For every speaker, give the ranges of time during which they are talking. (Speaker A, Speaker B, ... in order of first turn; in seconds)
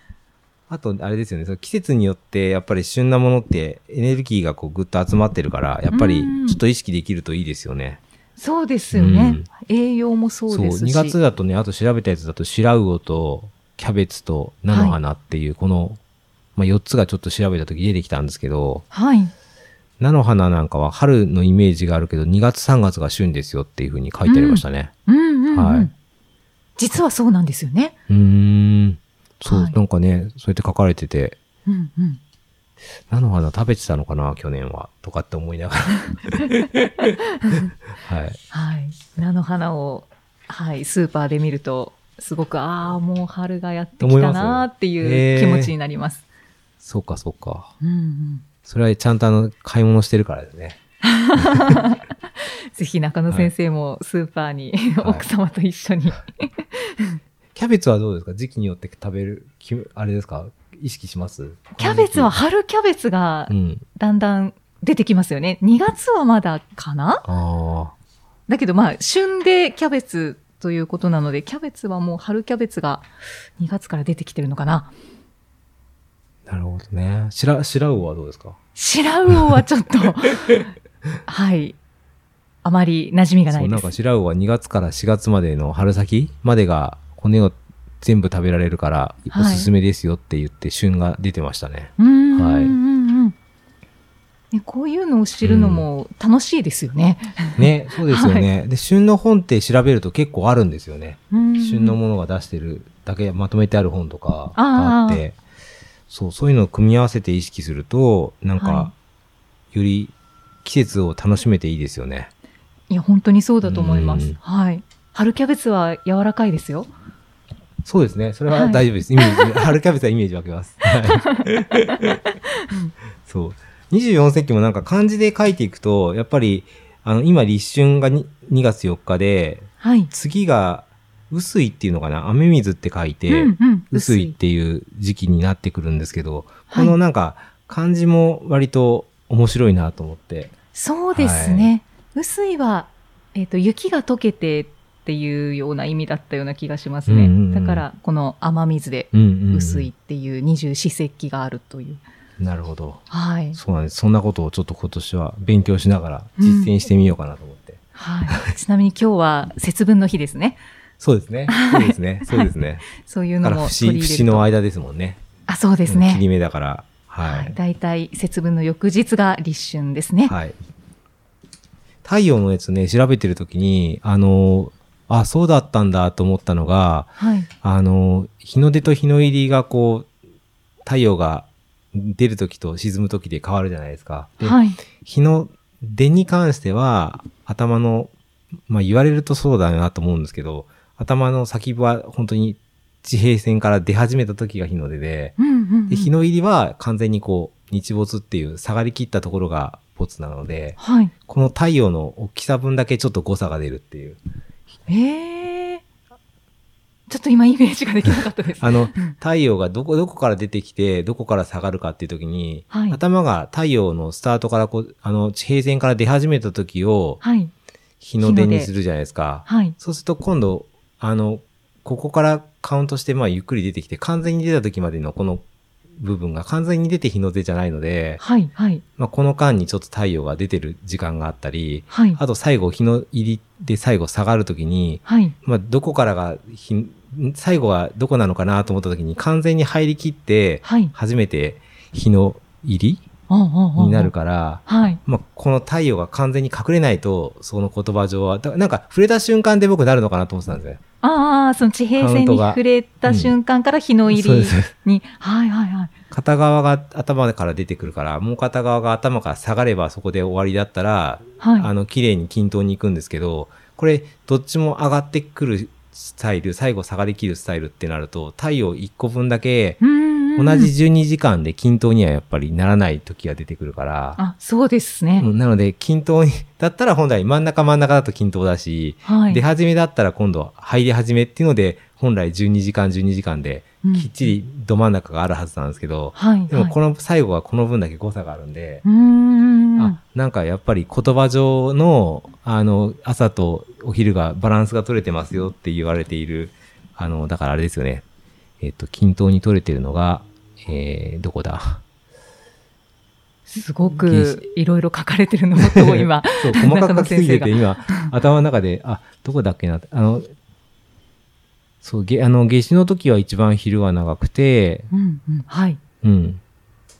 Speaker A: 0.7-8.0, 8.9-9.5, 10.5-16.0, 16.6-18.8, 20.0-24.9, 25.5-25.9, 28.1-31.4, 33.1-36.8, 38.0-38.4, 44.0-45.7, 46.8-47.7, 48.6-50.8, 51.5-51.8, 57.5-62.4, 63.5-63.8, 67.2-67.9, 76.5-78.5, 83.5-92.8, 95.4-95.9, 97.6-105.4, 106.1-108.9, 109.7-112.3, 113.6-114.4, 117.8-122.2, 123.2-140.5, 141.1-141.7, 147.1-147.9, 149.1-149.9, 152.4-153.0, 153.5-158.4, 161.0-165.2, 165.9-167.6, 170.3-170.6, 172.0-180.1, 180.8-188.1, 188.7-195.4, 195.9-204.2, 208.1-217.2, 218.0-225.4, 226.0-228.2, 229.0-243.1, 243.8-250.8, 252.0-253.3, 254.1-254.7, 256.1-269.8, 270.4-274.2, 275.2-288.8, 289.8-298.0, 298.6-301.8, 304.0-304.4, 305.6-310.3, 311.8-314.9, 316.0-316.4
Speaker B: 5.9-6.6, 8.4-11.2, 14.7-15.0, 18.9-19.3, 24.2-25.9, 26.8-27.9, 29.4-29.8, 31.6-32.2, 38.5-46.2, 47.8-48.4, 51.0-52.0, 52.7-57.2, 61.8-67.2, 68.5-74.9, 78.7-80.7, 81.3-81.8, 82.6-83.9, 89.3-89.7, 92.0-93.3, 94.5-98.5, 101.3-102.0, 104.5-105.2, 108.5-108.9, 112.9-116.9, 118.5-119.5, 121.1-121.4, 129.8-130.1, 133.3-134.3, 136.7-136.9, 140.7-152.0, 153.1-153.6, 156.4-156.7, 157.9-160.6, 161.5-164.5, 165.5-166.2, 167.2-170.3, 177.2-177.5, 184.4-184.8, 195.4-196.1, 200.8-201.1, 204.9-205.8, 207.1-209.1, 212.7-213.0, 217.2-217.5, 218.2-218.7, 219.4-219.8, 228.2-228.8, 231.9-232.2, 235.1-235.3, 240.6-240.9, 243.3-244.1, 244.7-245.0, 251.0-255.9, 261.4-261.7, 269.8-270.7, 274.2-275.3, 279.0-279.4, 283.8-284.3, 286.1-286.8, 288.8-290.0, 303.5-308.1, 314.9-315.8